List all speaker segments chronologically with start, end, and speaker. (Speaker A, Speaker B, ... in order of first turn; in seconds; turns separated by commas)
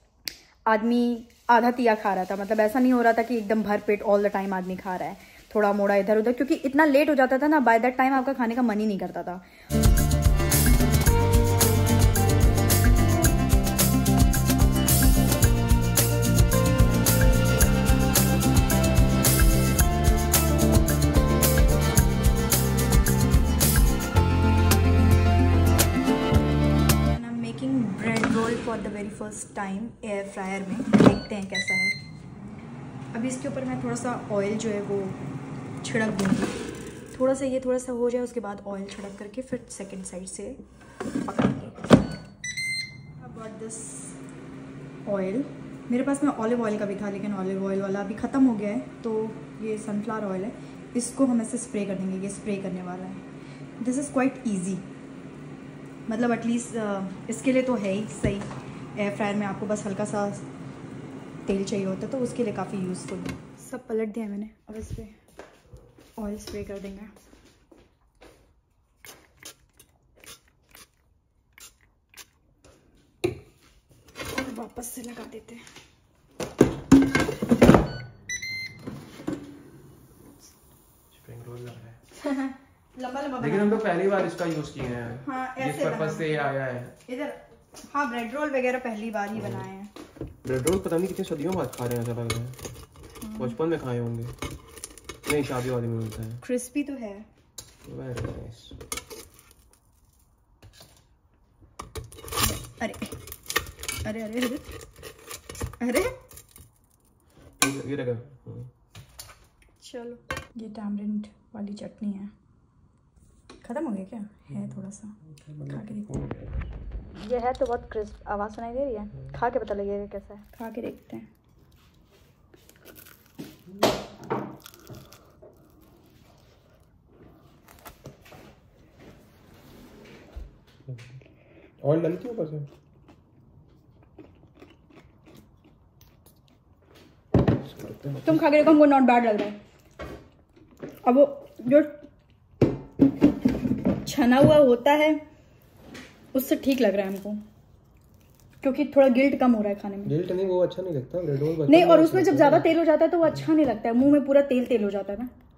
Speaker A: 0.7-9.4, Speaker A: 26.9-32.0, Speaker A: 33.1-35.2, Speaker A: 35.8-36.5, Speaker A: 37.1-40.6, Speaker A: 41.2-42.0, Speaker A: 43.2-44.2, Speaker A: 45.0-53.2, Speaker A: 53.8-54.8, Speaker A: 56.1-60.5, Speaker A: 61.5-65.1, Speaker A: 66.2-67.1, Speaker A: 74.3-75.6, Speaker B: 81.1-82.0, Speaker A: 82.2-83.8, Speaker B: 83.4-87.0, Speaker A: 85.2-86.5, Speaker A: 87.0-89.9, Speaker B: 90.4-92.6, Speaker A: 93.2-93.6, Speaker B: 93.3-94.3, Speaker B: 95.2-96.4, Speaker A: 96.4-97.3, Speaker B: 97.8-98.8, Speaker A: 102.4-103.2, Speaker A: 104.0-104.7, Speaker A: 105.8-106.1, Speaker B: 107.6-108.7, Speaker A: 109.8-112.3, Speaker A: 113.6-116.1, Speaker B: 115.3-116.6, Speaker A: 117.2-121.3, Speaker B: 131.8-132.7, Speaker B: 137.6-138.4, Speaker A: 138.2-139.6, Speaker A: 141.0-142.0, Speaker A: 143.9-145.2, Speaker A: 146.3-147.4, Speaker A: 148.6-150.1, Speaker B: 150.0-152.7, Speaker A: 151.7-155.3